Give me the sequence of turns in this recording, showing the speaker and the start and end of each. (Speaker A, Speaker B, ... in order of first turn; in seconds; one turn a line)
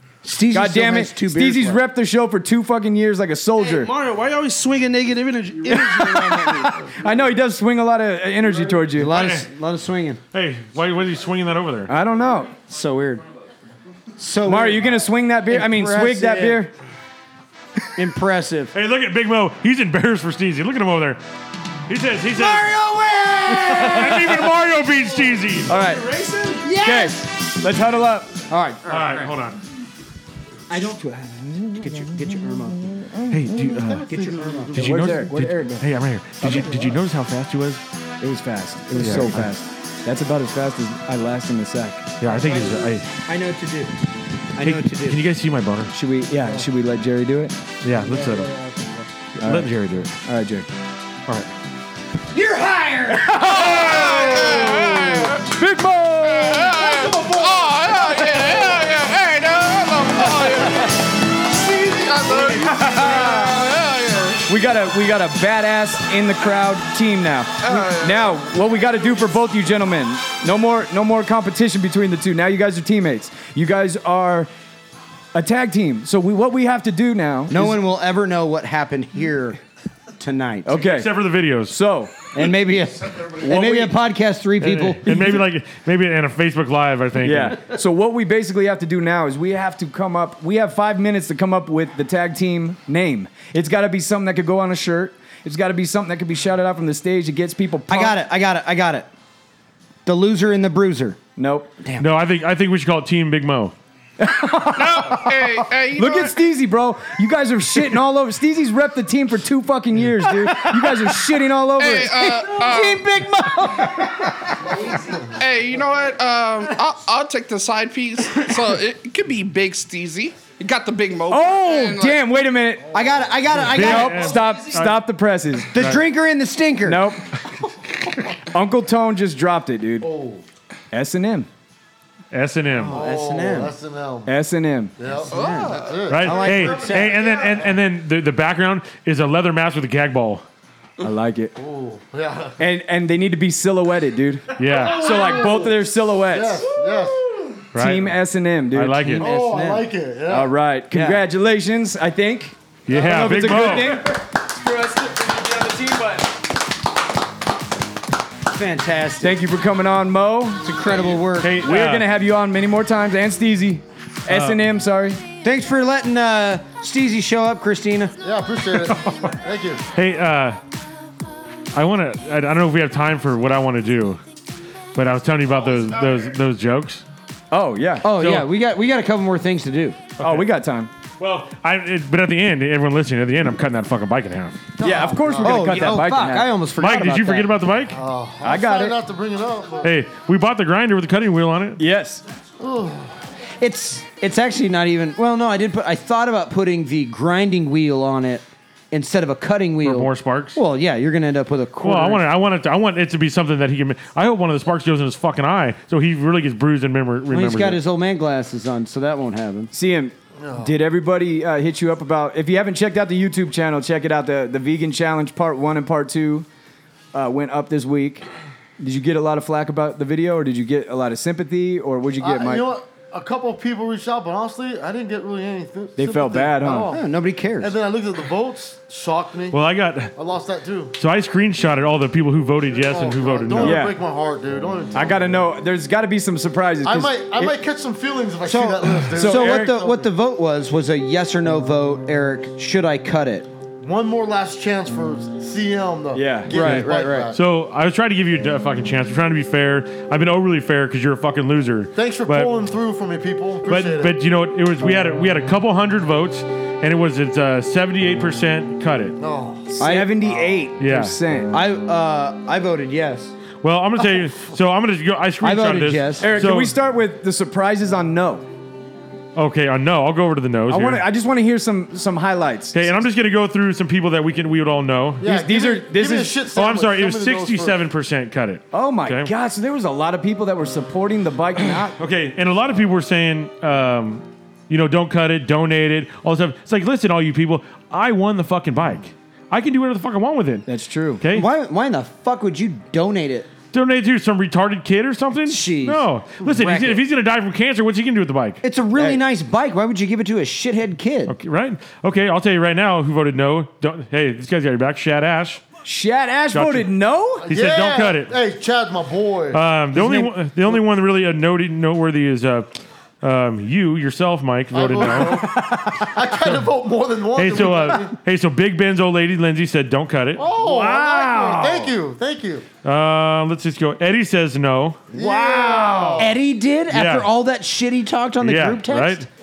Speaker A: 0.2-1.8
Speaker B: 0.5-3.9
Speaker C: 3.6-6.9
Speaker B: 5.7-9.1
Speaker A: 8.9-10.2
Speaker D: 9.1-9.5
Speaker D: 10.3-11.9
Speaker B: 11.9-12.5
Speaker A: 12.7-13.2
Speaker A: 14.2-14.9
Speaker B: 14.5-16.7
Speaker A: 15.5-16.6
Speaker A: 18.0-18.7
Speaker D: 18.7-21.2
Speaker D: 21.9-22.8
Speaker A: 22.4-24.1
Speaker D: 23.5-25.7
Speaker B: 23.5-24.3
Speaker C: 25.3-26.7
Speaker B: 25.7-26.1
Speaker A: 26.6-27.2
Speaker B: 26.8-28.3
Speaker A: 28.5-29.3
Speaker D: 28.9-29.6
Speaker A: 30.7-33.2
Speaker B: 31.3-32.1
Speaker D: 33.3-34.1
Speaker A: 33.8-34.8
Speaker E: 33.9-34.9
Speaker B: 34.7-35.9
Speaker D: 34.7-37.8
Speaker B: 36.4-36.9
Speaker B: 38.2-42.1
Speaker D: 39.0-39.5
Speaker D: 42.2-43.1
Speaker A: 42.2-44.0
Speaker A: 44.5-45.2
Speaker D: 44.6-45.9
Speaker B: 45.9-47.6
Speaker D: 47.8-48.5
Speaker A: 48.0-49.1
Speaker B: 49.4-50.7
Speaker D: 49.4-50.1
Speaker A: 52.3-55.1
Speaker B: 53.2-56.9
Speaker F: 53.4-55.5
Speaker F: 56.2-64.4
Speaker A: 57.0-57.5
Speaker B: 62.5-63.6
Speaker B: 64.5-74.5
Speaker F: 67.6-68.3
Speaker B: 75.3-77.8
Speaker A: 77.5-79.6
Speaker A: 80.2-80.8
Speaker B: 80.7-81.1
Speaker D: 80.8-81.8
Speaker B: 81.7-82.1
Speaker A: 82.3-85.1
Speaker B: 83.5-83.8
Speaker D: 84.6-87.6
Speaker B: 85.1-85.4
Speaker B: 87.2-98.2
Speaker A: 97.9-99.1
Speaker A: 100.0-101.2
Speaker B: 101.4-101.7
Speaker A: 101.8-102.1
Speaker D: 102.0-103.8
Speaker B: 104.2-114.8
Speaker F: 104.8-106.4
Speaker F: 111.8-113.1
Speaker A: 112.8-113.2
Speaker F: 115.4-122.4
Speaker B: 121.3-122.9
Speaker A: 122.9-124.5
Speaker D: 123.6-125.0
Speaker B: 123.7-125.7
Speaker A: 125.7-127.1
Speaker D: 125.8-126.0
Speaker B: 126.9-127.2
Speaker B: 128.5-130.1
Speaker E: 130.0-130.4
Speaker B: 130.9-131.5
Speaker D: 132.3-133.0
Speaker E: 132.7-134.3
Speaker A: 132.8-133.7
Speaker B: 134.3-134.9
Speaker E: 135.0-137.4
Speaker A: 135.1-137.2
Speaker F: 135.3-136.1
Speaker D: 136.1-140.4
Speaker C: 136.6-137.5
Speaker B: 141.0-141.6
Speaker E: 141.6-142.6
Speaker B: 142.6-146.9
Speaker D: 144.6-145.1
Speaker E: 144.7-147.3
Speaker B: 147.7-149.2
Speaker D: 147.7-148.2
Speaker D: 148.7-149.2
Speaker A: 149.0-149.9
Speaker E: 149.2-150.5
Speaker B: 150.3-156.3
Speaker A: 150.9-151.2
Speaker D: 152.9-154.0
Speaker A: 158.5-159.4
Speaker B: 159.2-160.7
Speaker A: 160.6-161.6
Speaker D: 161.4-162.1
Speaker B: 161.6-165.2
Speaker D: 164.3-164.6
Speaker A: 165.4-168.2
Speaker E: 168.2-169.8
Speaker D: 169.9-170.6
Speaker D: 171.7-174.2
Speaker D: 174.9-177.0
Speaker B: 177.5-178.1
Speaker A: 178.0-180.0
Speaker D: 178.1-178.5
Speaker D: 180.2-180.5
Speaker B: 180.2-180.9
Speaker D: 181.2-184.7
Speaker E: 184.8-185.9
Speaker B: 184.8-186.5
Speaker A: 185.4-187.6
Speaker D: 186.8-188.0
Speaker E: 187.9-189.9
Speaker B: 188.4-189.0
Speaker D: 189.8-191.8
Speaker B: 191.8-192.2
Speaker E: 192.6-193.2
Speaker A: 193.6-202.2
Speaker D: 199.8-200.6
Speaker D: 201.8-207.8
Speaker A: 207.3-209.7
Speaker B: 209.7-216.5
Speaker E: 210.4-210.7
Speaker B: 217.1-218.3
Speaker B: 218.8-222.7
Speaker E: 222.2-227.1
Speaker B: 226.0-226.9
Speaker A: 226.9-227.7
Speaker E: 227.6-229.6
Speaker D: 229.5-230.1
Speaker E: 230.2-231.0
Speaker D: 231.0-233.9
Speaker E: 232.7-235.2
Speaker B: 233.6-233.9
Speaker B: 234.9-237.5
Speaker E: 236.8-240.1
Speaker A: 238.4-243.5
Speaker B: 239.2-239.7
Speaker E: 243.8-247.4
Speaker B: 246.1-246.8
Speaker A: 246.5-247.3
Speaker D: 247.3-252.5
Speaker E: 251.9-254.2
Speaker D: 253.7-259.2
Speaker E: 259.2-259.7
Speaker B: 259.7-261.5
Speaker A: 259.8-260.4
Speaker D: 260.8-261.2
Speaker A: 261.5-263.3
Speaker D: 263.6-266.8
Speaker A: 265.4-266.3
Speaker B: 266.2-268.4
Speaker D: 269.4-271.1
Speaker B: 270.7-272.9
Speaker D: 272.7-275.2
Speaker E: 275.2-277.8
Speaker B: 275.2-276.4
Speaker D: 276.5-279.3
Speaker B: 278.7-282.0
Speaker D: 281.9-290.7
Speaker B: 290.7-291.2
Speaker D: 291.2-291.5
Speaker A: 291.3-293.5
Speaker D: 293.7-298.6
Speaker A: 295.5-297.0
Speaker A: 298.6-301.3
Speaker D: 301.3-305.6
Speaker B: 305.9-307.5
Speaker D: 306.5-306.9
Speaker E: 307.5-309.6
Speaker D: 307.5-308.4
Speaker D: 309.5-312.7
Speaker B: 309.9-310.3
Speaker D: 313.2-315.5
Speaker E: 314.7-318.2
Speaker B: 315.0-316.1
Speaker D: 317.3-320.4
Speaker E: 320.4-322.7
Speaker B: 320.6-321.9
Speaker D: 322.8-325.0
Speaker E: 325.1-326.3
Speaker B: 325.1-326.3
Speaker A: 326.2-329.3
Speaker D: 326.9-327.3
Speaker D: 328.4-329.3